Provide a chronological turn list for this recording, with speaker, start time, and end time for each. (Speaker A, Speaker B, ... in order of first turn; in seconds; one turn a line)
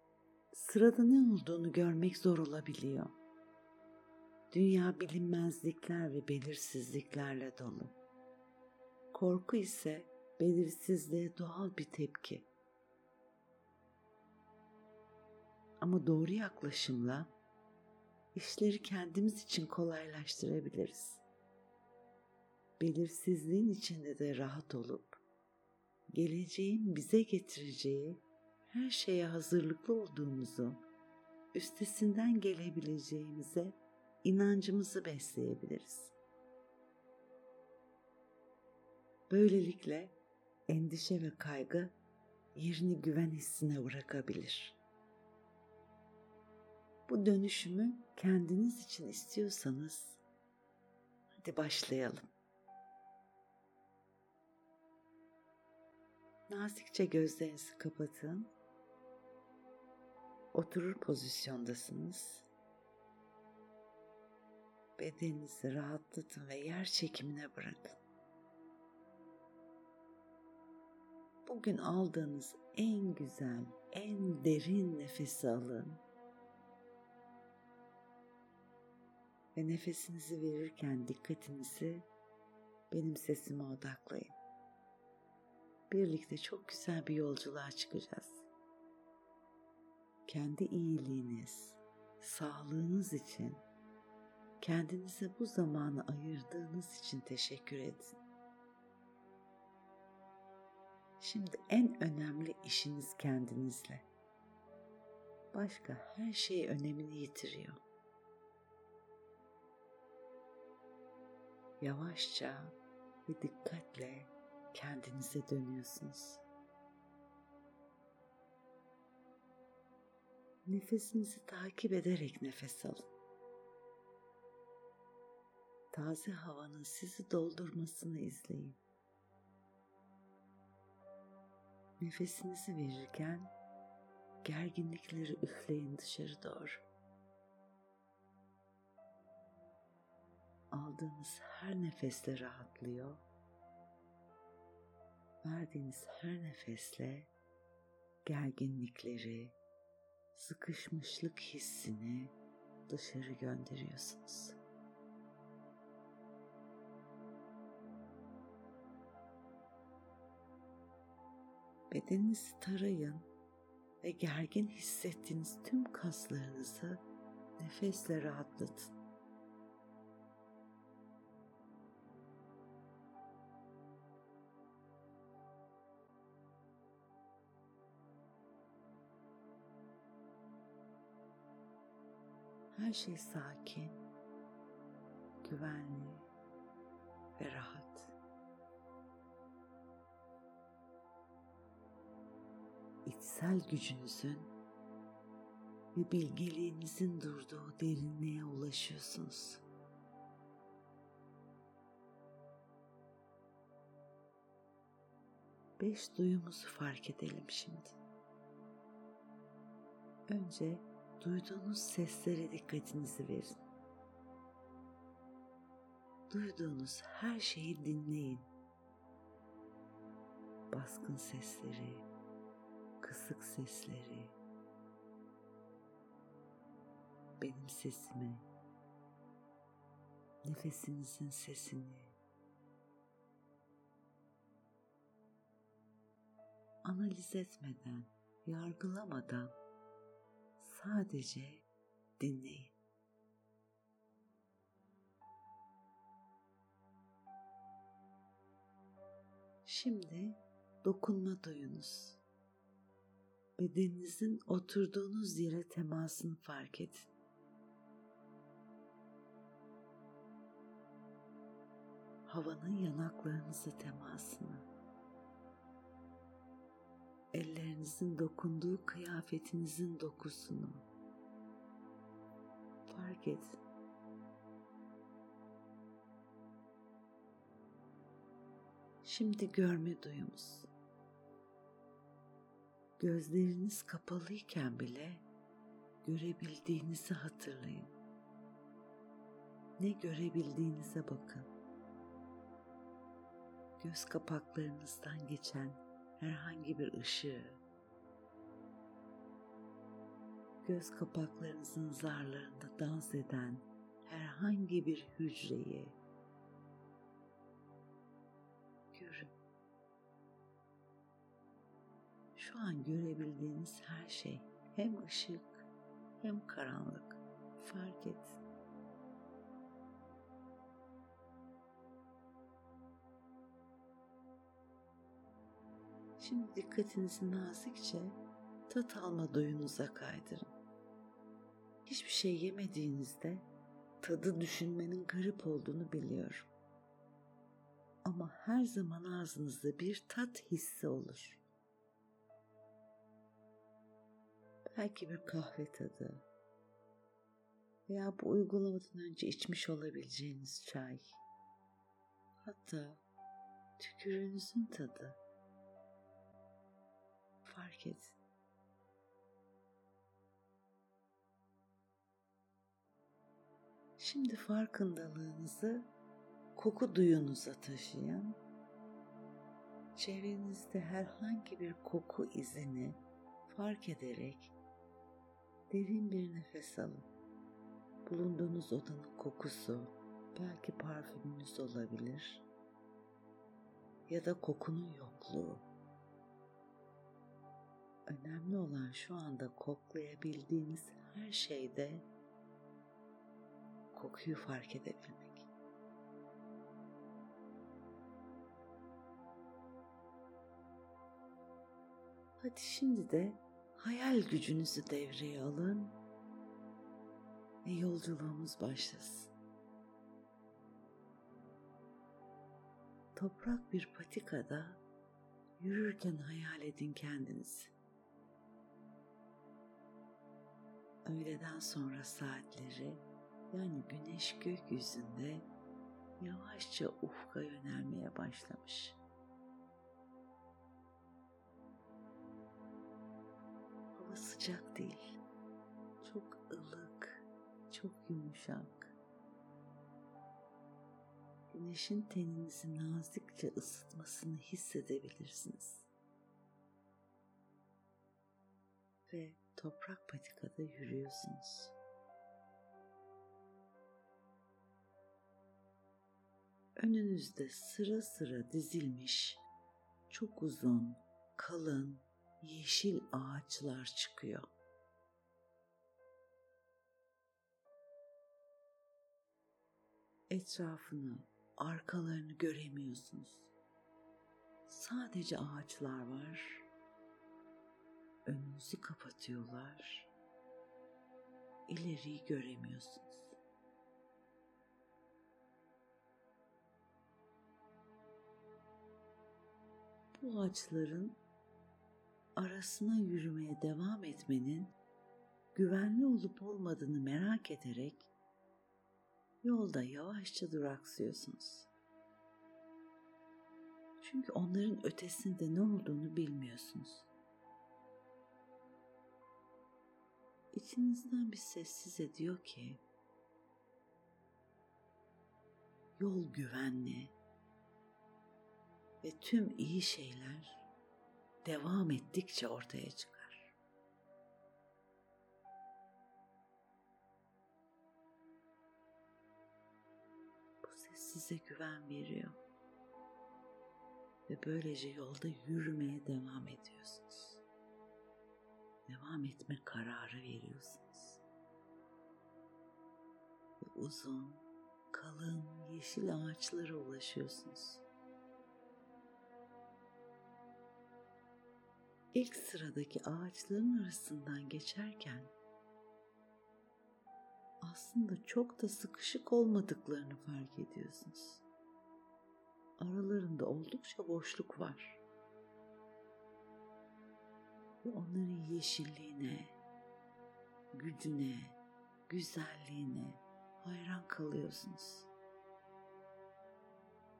Speaker A: 0.5-3.1
Speaker A: 4.5-8.0
Speaker A: 9.1-12.5
Speaker A: 15.8-17.3
Speaker A: 18.3-21.2
Speaker A: 22.8-25.2
Speaker A: 26.1-30.8
Speaker A: 31.5-36.1
Speaker A: 39.3-40.1
Speaker A: 40.7-42.0
Speaker A: 42.5-44.8
Speaker A: 47.1-50.2
Speaker A: 51.4-52.3
Speaker A: 56.5-58.5
Speaker A: 60.5-62.5
Speaker A: 65.0-68.0
Speaker A: 71.5-76.0
Speaker A: 79.5-82.1
Speaker A: 82.9-84.3
Speaker A: 85.9-88.5
Speaker A: 90.2-93.6
Speaker A: 94.6-98.2
Speaker A: 101.2-104.0
Speaker A: 105.5-107.8
Speaker A: 111.8-116.4
Speaker A: 120.7-123.1
Speaker A: 125.9-128.8
Speaker A: 132.0-133.5
Speaker A: 134.4-136.8
Speaker A: 140.7-143.2
Speaker A: 145.4-147.3
Speaker A: 148.2-149.6
Speaker A: 150.3-152.3
Speaker A: 152.9-154.6
Speaker A: 161.9-163.3
Speaker A: 164.0-167.0
Speaker A: 167.6-168.9
Speaker A: 182.7-184.0
Speaker A: 185.4-186.3
Speaker A: 187.3-188.1
Speaker A: 193.1-194.5
Speaker A: 195.9-199.6
Speaker A: 205.8-207.9
Speaker A: 210.3-213.6
Speaker A: 216.3-218.5
Speaker A: 220.7-222.0
Speaker A: 223.0-224.3
Speaker A: 227.4-228.4
Speaker A: 230.4-232.2
Speaker A: 236.8-239.5
Speaker A: 240.6-241.6
Speaker A: 242.2-242.7
Speaker A: 249.6-252.2
Speaker A: 253.6-257.1
Speaker A: 262.2-264.7
Speaker A: 267.3-270.9
Speaker A: 272.9-273.6
Speaker A: 279.0-280.7
Speaker A: 283.0-285.2
Speaker A: 286.0-287.9
Speaker A: 289.8-291.5
Speaker A: 293.8-297.6
Speaker A: 300.6-306.0
Speaker A: 308.9-309.3
Speaker A: 312.3-315.7
Speaker A: 316.2-318.4
Speaker A: 326.2-330.5
Speaker A: 331.9-333.5
Speaker A: 334.0-336.5
Speaker A: 338.0-341.4
Speaker A: 344.7-346.2
Speaker A: 347.9-351.2
Speaker A: 352.4-353.0
Speaker A: 353.8-355.2
Speaker A: 357.4-358.2
Speaker A: 364.0-365.9
Speaker A: 366.5-368.4
Speaker A: 369.9-374.5
Speaker A: 375.7-377.1
Speaker A: 378.1-382.4
Speaker A: 384.1-385.6
Speaker A: 388.1-392.1
Speaker A: 393.9-395.5
Speaker A: 402.4-406.0
Speaker A: 407.6-409.3
Speaker A: 413.1-414.8
Speaker A: 415.6-417.7
Speaker A: 421.0-425.5
Speaker A: 426.2-429.0
Speaker A: 433.9-435.2
Speaker A: 436.0-438.9
Speaker A: 441.5-445.9
Speaker A: 449.1-451.7
Speaker A: 456.8-459.4
Speaker A: 460.1-464.5
Speaker A: 470.3-473.5
Speaker A: 474.7-476.6
Speaker A: 478.2-480.1
Speaker A: 481.7-483.4
Speaker A: 490.1-491.2
Speaker A: 492.4-494.7
Speaker A: 495.5-498.1
Speaker A: 499.4-501.7
Speaker A: 504.0-507.1
Speaker A: 510.5-512.8
Speaker A: 516.0-517.1
Speaker A: 519.0-520.6
Speaker A: 521.4-523.5
Speaker A: 530.6-532.4
Speaker A: 534.3-537.4
Speaker A: 538.9-541.2
Speaker A: 543.6-547.8
Speaker A: 552.1-555.3
Speaker A: 557.6-561.4
Speaker A: 562.8-565.0
Speaker A: 567.8-569.5
Speaker A: 570.7-575.1